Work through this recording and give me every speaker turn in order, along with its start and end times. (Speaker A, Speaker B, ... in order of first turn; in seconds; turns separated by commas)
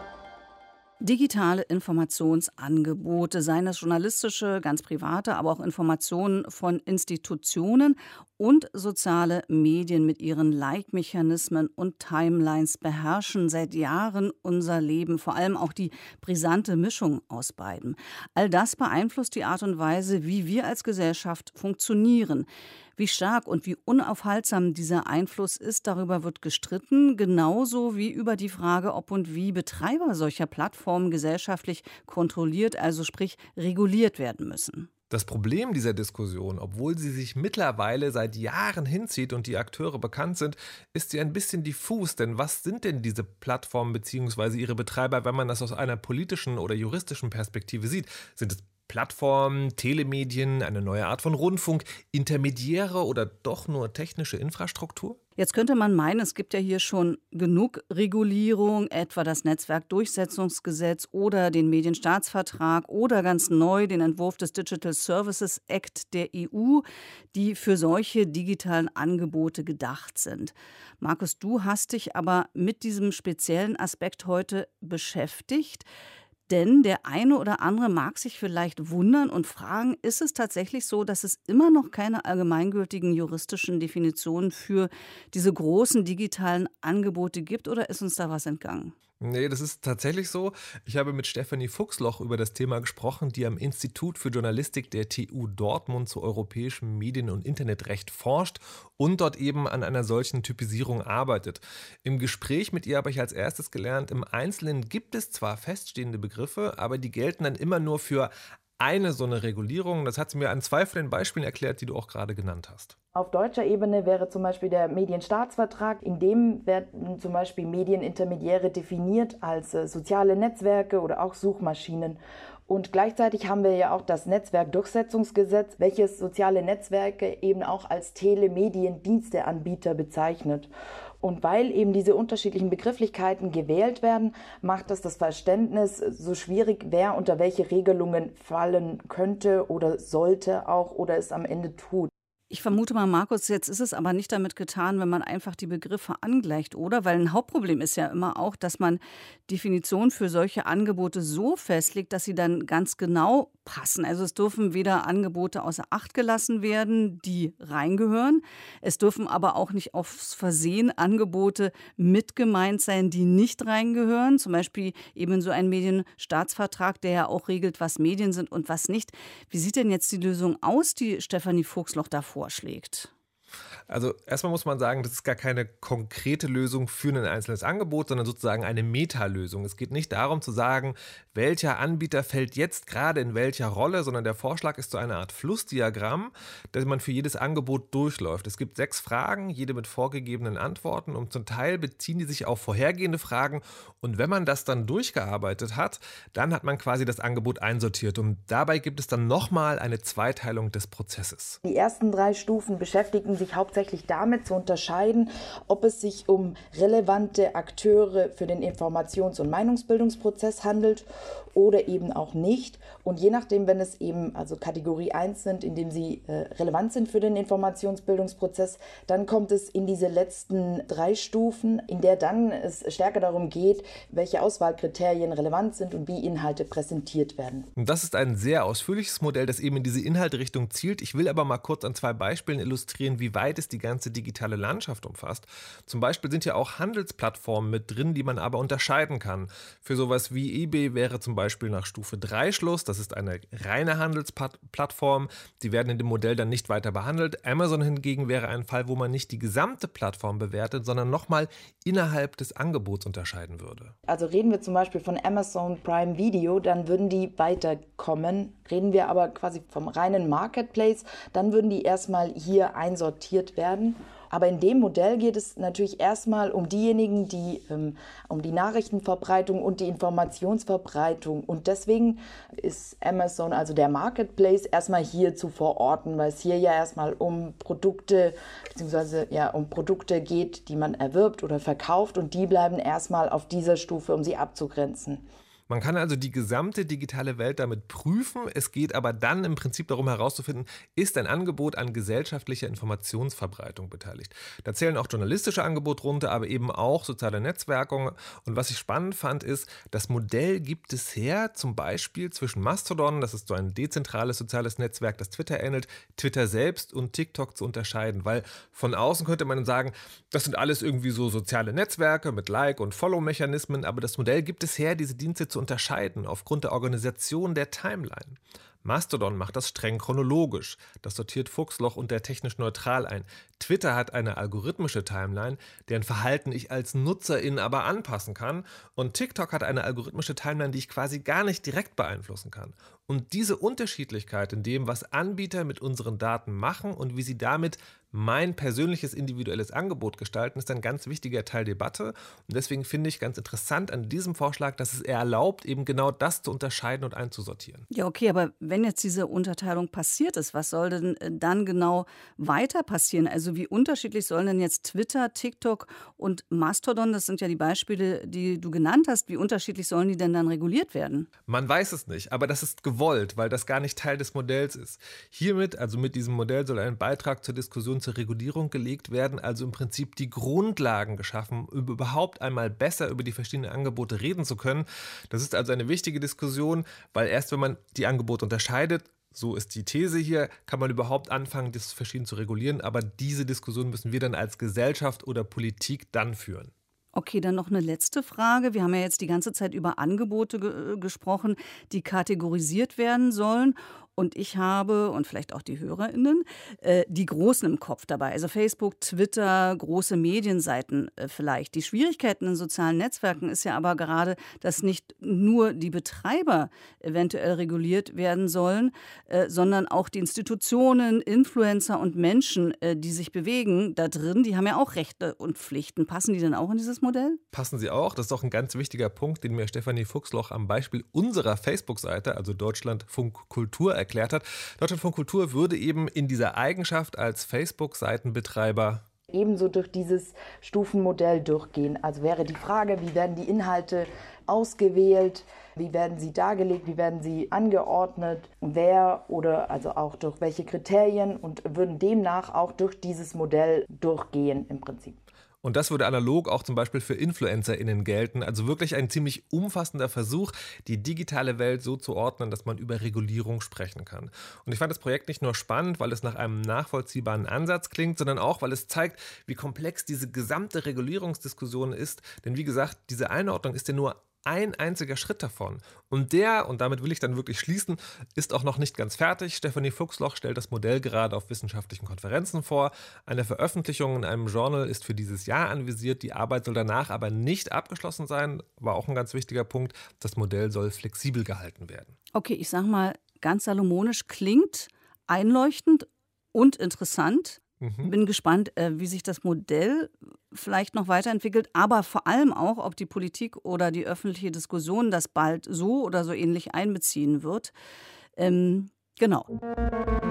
Speaker A: 1.0-34.9, Speaker B: 35.1-55.2, Speaker A: 55.4-75.9, Speaker A: 76.5-88.9, Speaker B: 89.2-112.9, Speaker C: 113.1-130.7, Speaker C: 131.2-142.1, Speaker A: 142.5-173.1, Speaker B: 173.9-201.6, Speaker C: 201.6-227.7, Speaker B: 227.8-253.9, Speaker C: 254.1-285.2, Speaker B: 285.7-347.9, Speaker A: 347.9-361.3, Speaker B: 361.5-386.7, Speaker A: 387.1-417.4, Speaker B: 417.5-429.0, Speaker C: 429.3-445.2, Speaker B: 445.6-482.1, Speaker A: 482.3-497.7, Speaker B: 487.8-488.1, Speaker A: 498.4-499.5